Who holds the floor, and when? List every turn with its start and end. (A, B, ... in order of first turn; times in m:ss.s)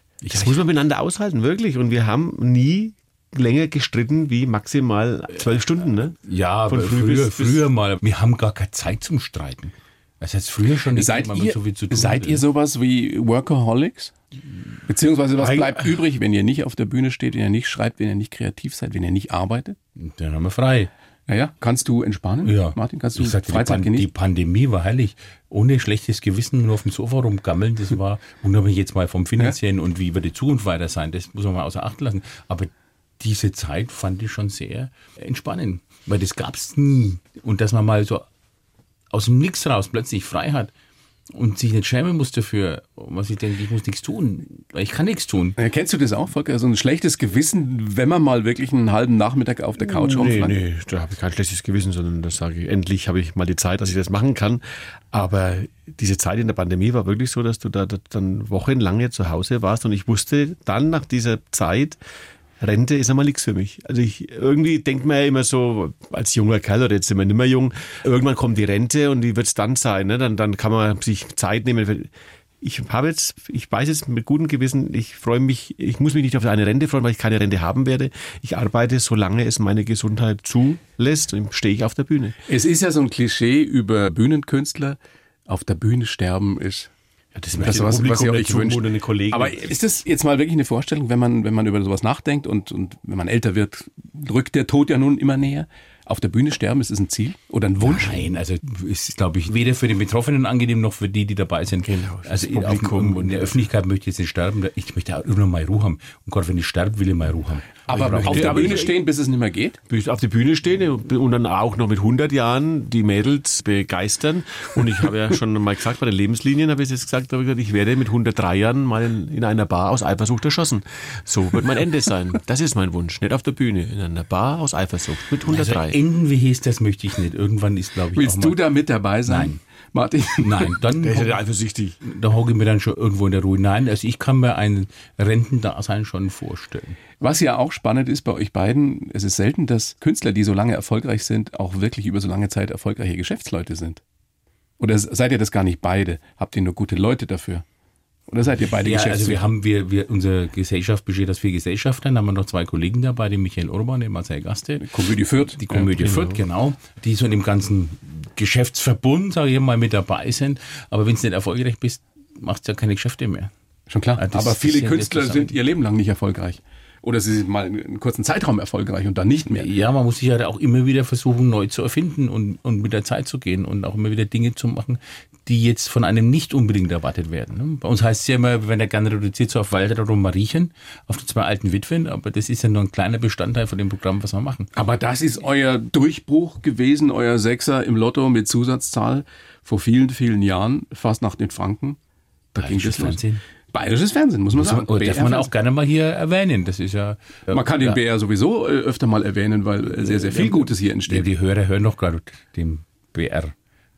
0:00.2-0:00.6 A
0:00.3-0:06.2 B
0:06.3-0:12.4 A
0:06.7-0:07.7 B
0:10.9-0:14.1 C
0:14.9-0:19.8 C
0:15.4-0:15.7 B
0:20.0-0:20.9 A
0:21.3-0:24.1 C
0:22.4-0:38.3 A
0:39.1-0:40.7 A
0:41.3-0:45.6 A
0:45.6-0:50.6 C
0:49.8-1:02.0 B
1:02.6-1:12.1 B
1:12.6-1:22.4 B
1:22.5-1:26.9 C
1:27.4-1:29.8 B
1:27.6-1:38.2 C
1:37.8-1:48.9 A
1:41.8-1:43.6 B
1:47.9-1:49.8 C
1:48.2-1:49.0 B
1:49.9-2:06.0 B
2:05.5-2:09.6 A
2:08.2-2:10.7 C
2:10.4-2:11.4 A
2:11.0-2:12.0 B
2:12.0-2:17.0 A
2:17.2-2:24.0 C
2:24.8-2:27.6 C
2:28.3-2:29.5 C
2:28.7-2:34.9 A
2:34.8-2:36.4 C
2:35.6-2:43.5 A
2:43.9-2:49.7 C
2:44.2-2:45.5 A
2:49.5-3:04.7 A
3:04.7-3:12.0 C
3:12.5-3:15.5 C
3:12.6-3:13.4 A
3:14.6-3:18.0 A
3:17.5-3:21.3 C
3:20.2-3:20.5 B
3:21.1-3:23.5 A